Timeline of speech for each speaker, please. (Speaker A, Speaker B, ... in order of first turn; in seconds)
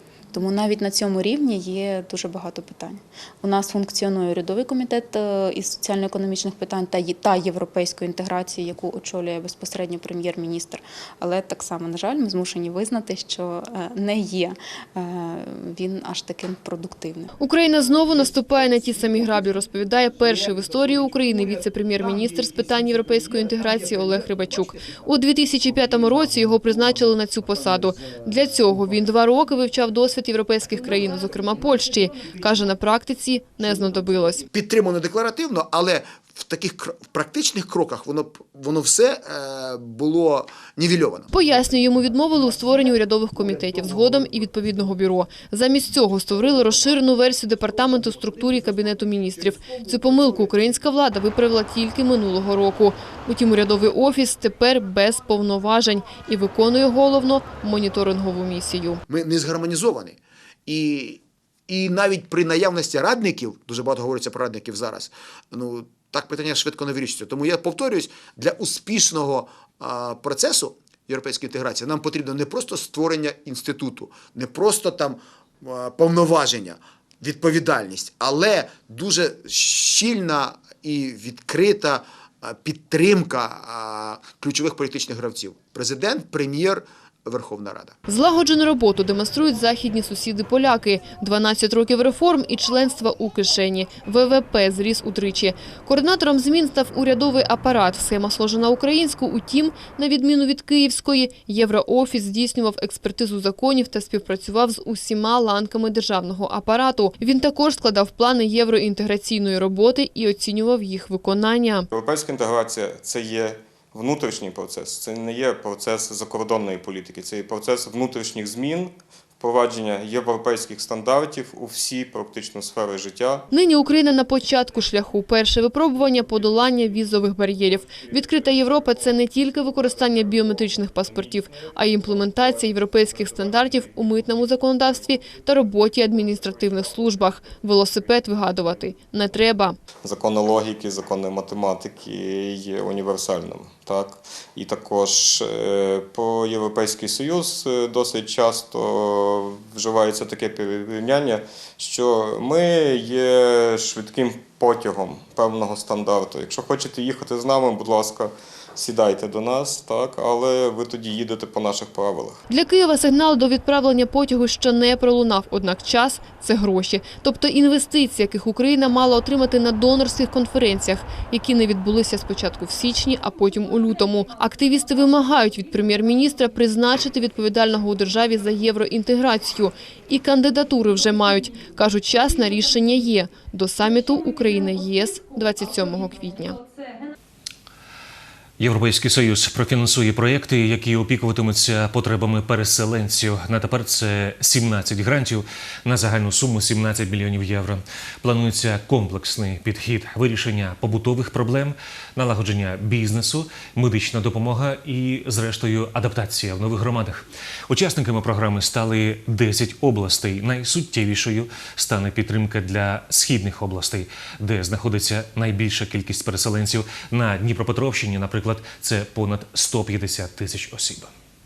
Speaker A: 0.3-17.3
Speaker B: 17.4-34.5, 41.3-59.0, 88.1-111.9, 123.5-139.8, 162.5-186.6
Speaker C: 34.5-41.3, 59.1-87.9
Speaker D: 111.9-123.5, 140.0-162.4
Speaker E: 188.6-221.1